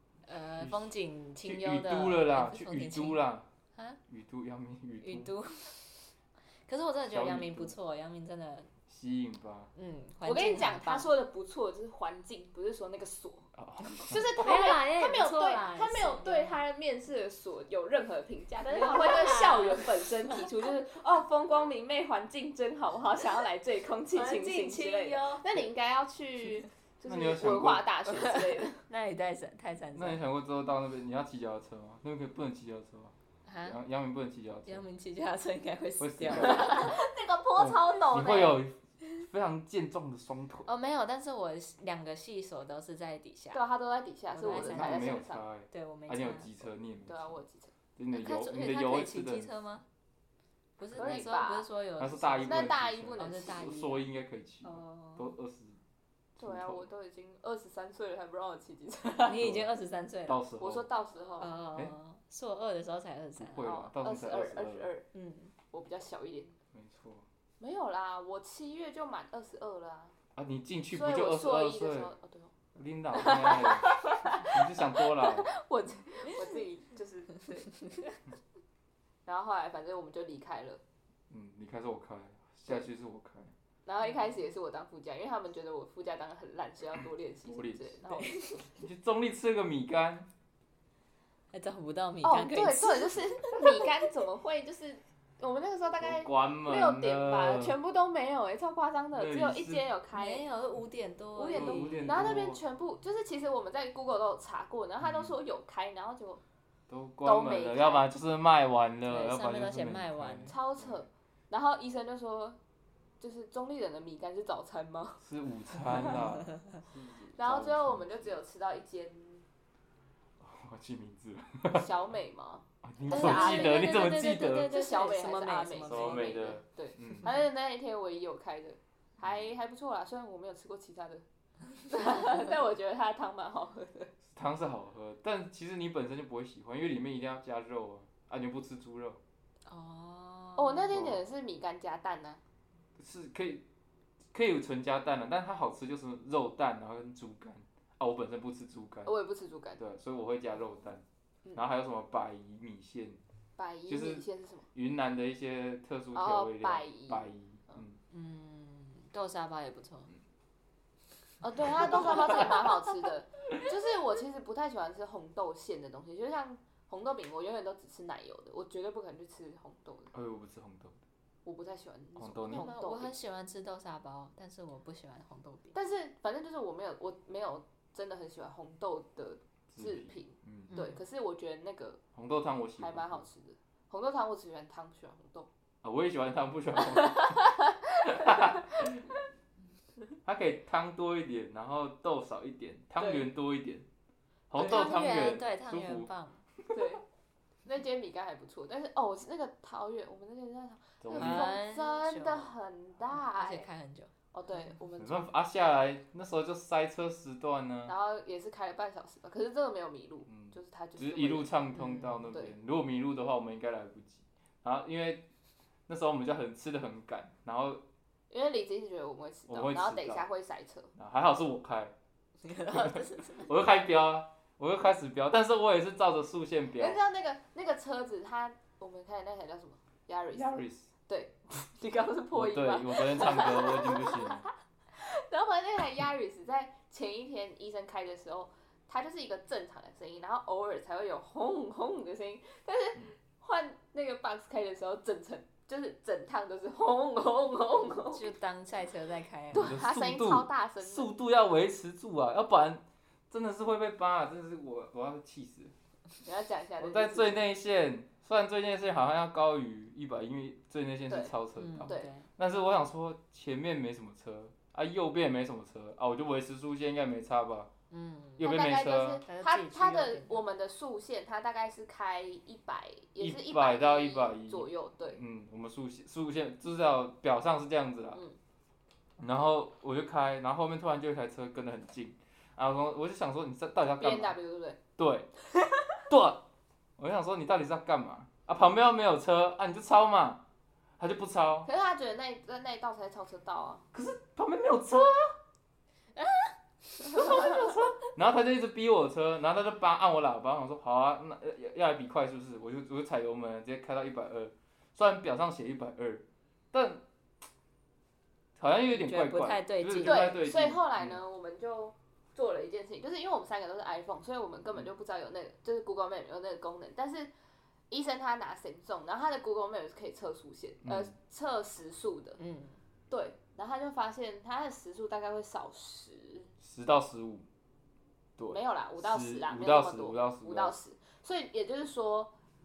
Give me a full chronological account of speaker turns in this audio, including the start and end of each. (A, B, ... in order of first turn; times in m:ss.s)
0:00.2-0:03.2 A
0:01.4-0:03.5 B
0:03.7-0:04.0 A
0:04.1-0:05.3 B
0:05.0-0:08.7 A
0:07.0-0:07.7 B
0:08.9-0:09.7 B
0:09.7-0:11.1 A
0:10.2-0:28.8 C
0:13.6-0:14.2 B
0:14.4-0:16.6 A
0:18.6-0:20.5 A
0:24.1-0:25.6 A
0:27.0-0:27.9 B
0:28.2-0:30.2 A
0:29.9-0:34.8 B
0:33.4-0:33.8 A
0:34.6-0:37.0 A
0:36.0-0:36.9 B
0:36.4-0:38.6 C
0:37.6-0:40.7 B
0:40.6-0:43.6 A
0:43.5-0:45.4 C
0:44.3-0:45.2 A
0:44.4-0:47.4 B
0:45.7-0:46.5 A
0:47.1-0:47.7 C
0:48.0-0:49.5 B
0:48.1-0:49.8 A
0:50.8-0:54.1 A
0:50.9-0:51.2 B
0:50.9-0:51.6 C
0:52.0-0:55.8 B
0:52.5-0:53.6 C
0:54.6-0:55.3 A
0:56.4-0:56.9 B
0:56.4-0:59.4 C
0:59.2-1:00.4 A
0:59.4-0:59.7 B
1:00.3-1:00.9 B
1:00.6-1:01.5 C
1:01.4-1:03.8 A
1:03.4-1:04.9 B
1:03.6-1:05.1 C
1:05.1-1:05.5 A
1:05.7-1:06.6 C
1:06.7-1:07.2 B
1:07.6-1:10.2 C
1:10.4-1:12.1 B
1:10.9-1:12.6 C
1:12.7-1:15.5 B
1:13.1-1:17.8 C
1:19.2-1:20.8 C
1:21.3-1:23.5 B
1:23.8-1:28.6 C
1:27.5-1:27.9 B
1:28.1-1:28.6 A
1:28.8-1:30.3 B
1:31.5-1:33.9 A
1:32.2-1:40.4 C
1:36.0-1:37.7 B
1:39.1-1:39.9 B
1:40.1-1:42.4 A
1:41.4-1:46.4 C
1:41.5-1:42.6 B
1:45.0-1:45.4 B
1:46.9-1:51.0 B
1:47.2-1:48.0 C
1:49.1-1:50.6 A
1:50.5-1:52.6 C
1:53.2-1:55.2 C
1:55.2-1:58.4 B
1:57.4-1:59.4 C
2:00.4-2:01.9 B
2:01.7-2:14.1 C
2:02.8-2:04.7 B
2:03.1-2:06.6 A
2:05.8-2:07.3 B
2:09.2-2:09.5 B
2:14.3-2:19.2 B
2:19.6-2:21.0 A
2:20.6-2:22.4 C
2:20.9-2:21.2 B
2:23.0-2:23.6 B
2:24.3-2:29.1 B
2:29.0-2:29.8 C
2:29.8-2:31.0 B
2:31.5-2:33.2 B
2:33.6-2:34.7 C
2:33.9-2:38.0 B
2:36.1-2:37.8 C
2:38.1-2:40.1 A
2:41.4-2:50.1 C
2:50.1-2:51.0 B
2:51.4-2:53.1 C
2:52.2-2:52.7 B
2:52.5-2:55.8 A
2:55.7-3:02.0 C
2:59.7-3:00.7 B
3:00.7-3:01.0 A
3:02.1-3:03.2 B
3:02.8-3:05.5 C
3:05.8-3:07.4 B
3:08.0-3:09.0 B
3:10.2-3:13.8 B
3:13.0-3:13.3 C
3:14.5-3:16.8 B
3:14.6-3:16.4 A
3:16.7-3:17.0 C
3:17.6-3:23.7 C
3:21.0-3:21.5 B
3:21.1-3:22.5 A
3:23.1-3:24.1 A
3:24.3-3:25.2 C
3:25.0-3:27.9 B
3:27.9-3:31.5 C
3:30.3-3:35.3 B
3:31.8-3:32.2 A
3:35.9-3:37.8 B
3:38.3-3:40.9 C
3:39.5-3:40.2 B
3:41.0-3:41.9 B
3:42.4-3:43.5 A
3:42.7-3:47.0 B
3:46.8-4:08.3 C
3:50.3-3:50.9 B
3:52.3-3:54.4 B
4:08.1-4:09.8 A
4:09.5-4:11.1 C
4:09.5-4:15.7 B
4:16.2-4:17.4 C
4:16.8-4:27.7 B
4:21.6-4:22.3 A
4:21.8-4:22.1 C
4:27.9-4:28.5 A
4:28.4-4:29.2 B
4:28.4-4:35.2 C
4:29.3-4:30.4 A
4:33.2-4:38.2 B
4:39.2-4:44.4 B
4:44.0-4:44.8 C
4:45.0-4:45.3 B
4:46.0-4:46.4 B
4:47.0-4:50.4 B
4:51.0-4:51.7 B
4:51.6-4:53.8 C
4:53.9-4:55.4 B
4:56.1-4:57.6 A
4:57.1-5:07.0 B
5:08.6-5:11.2 B
5:08.9-5:10.4 A
5:10.0-5:17.3 C
5:17.9-5:22.4 C
5:20.8-5:21.1 B
5:22.4-5:22.8 A
5:23.1-5:26.5 C
5:26.6-5:27.4 B
5:28.4-5:30.8 B
5:28.5-5:32.3 C